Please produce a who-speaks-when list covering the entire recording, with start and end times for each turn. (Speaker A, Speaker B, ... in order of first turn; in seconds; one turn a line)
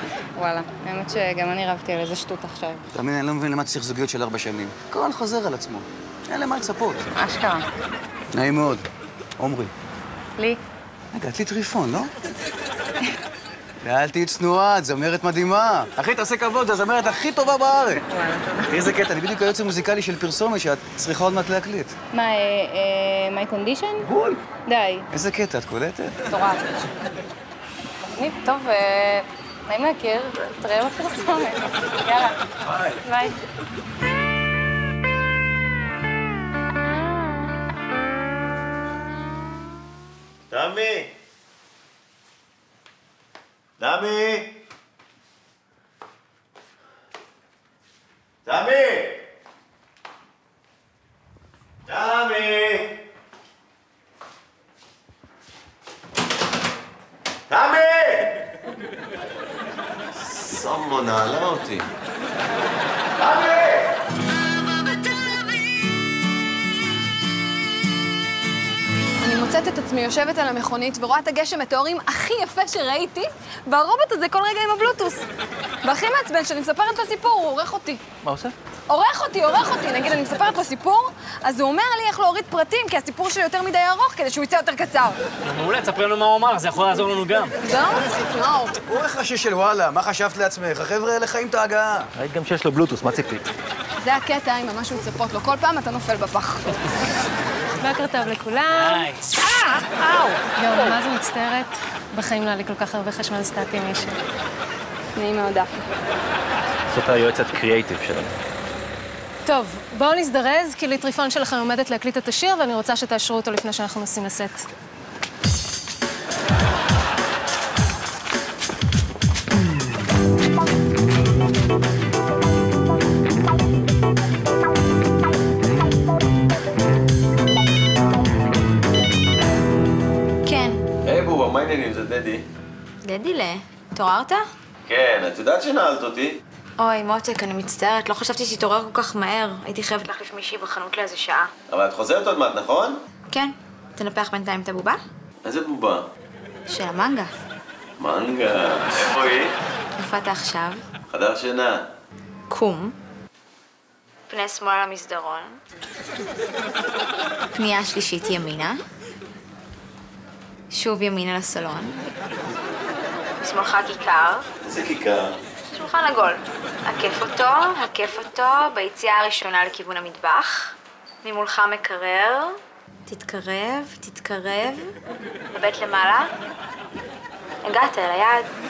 Speaker A: 0.4-2.8
Speaker B: 2.9-7.1
Speaker A: 7.1-7.6
Speaker B: 8.3-8.8
Speaker B: 9.4-9.7
Speaker B: 11.1-12.1
Speaker B: 13.8-18.0
Speaker A: 18.1-18.7
Speaker B: 18.7-21.9
Speaker A: 22.1-24.1
Speaker A: 24.6-25.1
Speaker B: 25.1-26.1
Speaker A: 26.3-26.7
Speaker A: 28.0-32.4
Speaker A: 33.0-33.4
Speaker C: 40.5-41.1
Speaker C: 43.8-44.5
Speaker C: 48.5-49.2
Speaker C: 51.9-52.9
Speaker C: 57.5-58.4
Speaker C: 60.1-61.9
Speaker C: 63.2-63.9
Speaker D: 69.2-75.2
Speaker D: 75.8-78.0
Speaker E: 78.2-78.5
Speaker D: 78.9-85.2
Speaker F: 85.4-87.5
Speaker D: 87.6-88.8
Speaker B: 88.8-92.1
Speaker E: 92.2-93.5
Speaker D: 94.0-96.8
Speaker G: 97.8-99.1
Speaker F: 98.7-99.2
Speaker G: 100.5-104.1
Speaker A: 105.1-105.8
Speaker E: 106.9-108.3
Speaker G: 109.4-114.6
Speaker H: 130.4-130.8
Speaker C: 131.0-132.4
Speaker H: 133.0-134.4
Speaker C: 134.9-136.4
Speaker H: 136.8-141.5
Speaker C: 141.7-143.0
Speaker H: 143.3-145.0
Speaker C: 145.4-146.0
Speaker H: 146.7-147.3
Speaker C: 148.0-149.5
Speaker H: 150.0-150.8
Speaker C: 151.1-151.8
Speaker H: 152.5-152.9
Speaker H: 154.3-155.6
Speaker H: 157.6-158.8
Speaker H: 160.7-162.0
Speaker H: 163.4-164.4
Speaker C: 164.6-165.3
Speaker H: 165.7-174.9
Speaker H: 175.5-176.3
Speaker H: 177.6-178.4